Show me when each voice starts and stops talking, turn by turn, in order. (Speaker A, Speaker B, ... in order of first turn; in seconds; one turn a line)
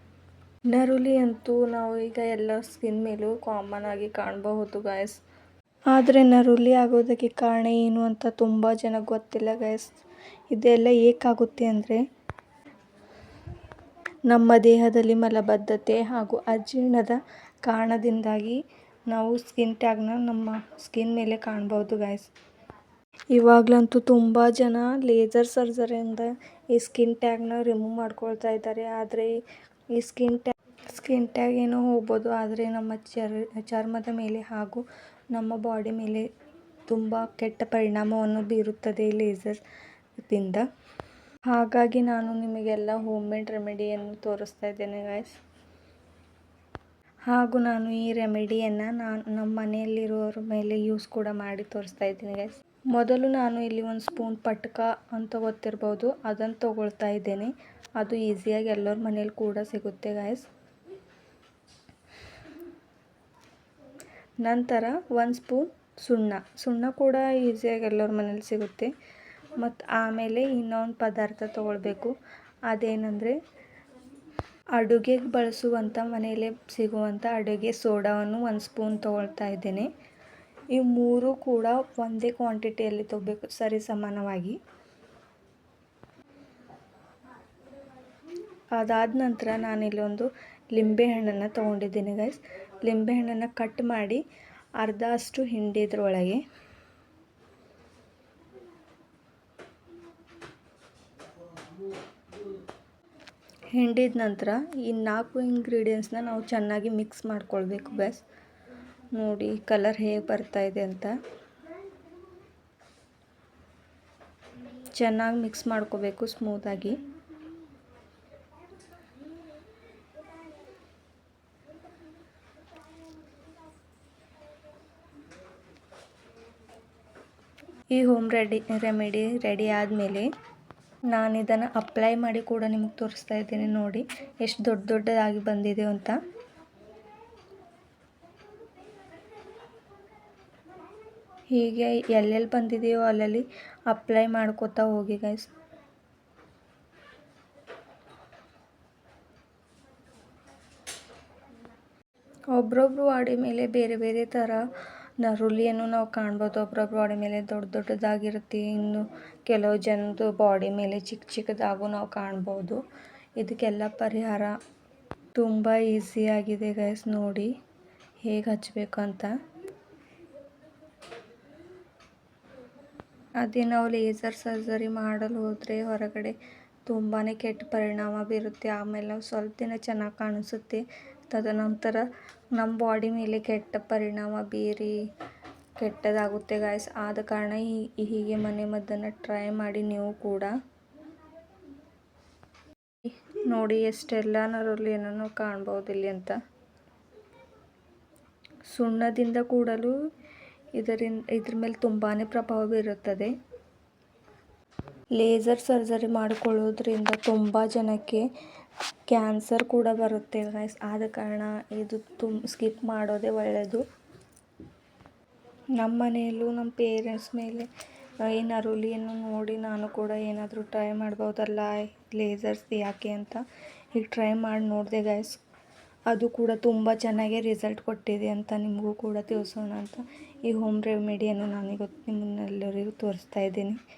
Speaker A: 0.7-5.2
Speaker A: 5.9-10.0
Speaker A: 10.5-12.0
Speaker A: 14.3-22.3
Speaker A: 23.3-29.4
Speaker A: 29.9-36.3
Speaker A: 36.9-39.6
Speaker A: 40.2-40.6
Speaker A: 41.5-45.4
Speaker A: 47.3-60.5
Speaker A: 64.4-68.9
Speaker A: 69.6-72.1
Speaker A: 72.7-73.4
Speaker A: 74.8-79.9
Speaker A: 80.7-84.6
Speaker A: 88.7-94.2
Speaker A: 94.8-96.4
Speaker A: 103.7-108.2
Speaker A: 109.1-111.2
Speaker A: 115.0-117.0
Speaker A: 127.9-130.3
Speaker A: 131.1-136.2
Speaker A: 141.5-145.5
Speaker A: 152.5-154.7
Speaker A: 155.2-162.8
Speaker A: 163.4-164.6
Speaker A: 165.3-167.5
Speaker A: 168.2-169.3
Speaker A: 173.4-182.1
Speaker A: 182.6-185.0
Speaker A: 185.8-190.5
Speaker A: 193.4-196.4
Speaker A: 198.7-199.9
Speaker A: 200.8-203.3
Speaker A: 205.2-208.2
Speaker A: 209.1-213.8
Speaker A: 215.8-217.7
Speaker A: 218.2-223.4
Speaker A: 223.9-225.4
Speaker A: 226.1-233.8